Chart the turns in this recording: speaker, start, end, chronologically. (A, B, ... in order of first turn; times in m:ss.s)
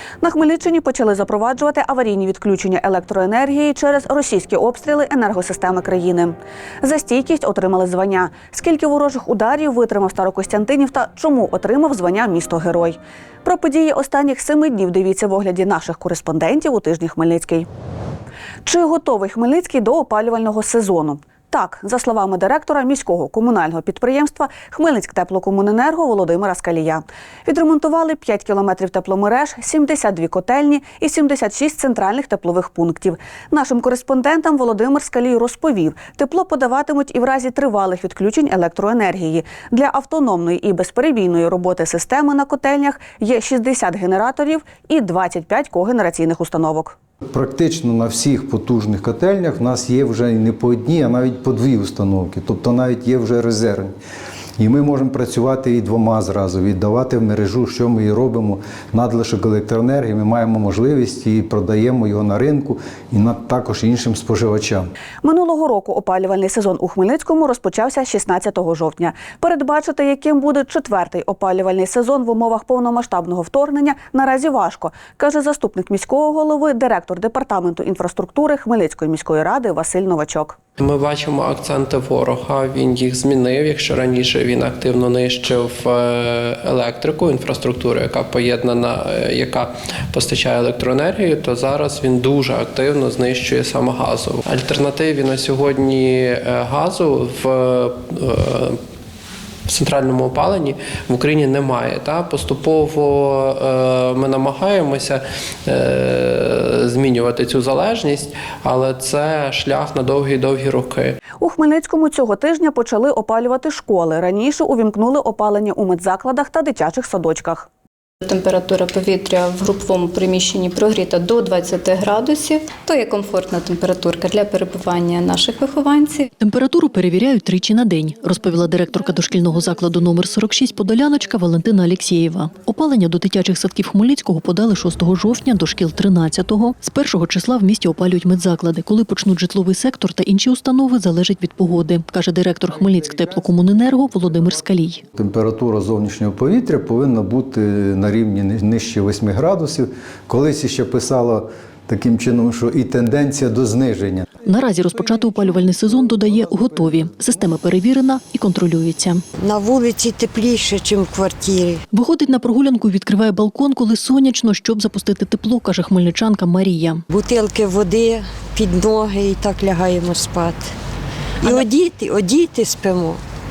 0:00.2-0:17.7 A
0:18.6-0:46.9 A
0:47.3-0:53.9 B
0:54.6-1:04.9 B
1:05.2-1:20.6 A
1:20.8-1:38.8 C
1:39.7-1:51.2 C
1:51.4-1:57.7 A
1:58.2-2:06.2 D
2:06.4-2:25.0 E
2:25.2-2:34.2 B
2:34.4-2:39.2 E
2:39.4-2:41.8 F
2:41.9-2:47.0 E
2:47.1-2:50.7 F
2:51.4-2:53.2 F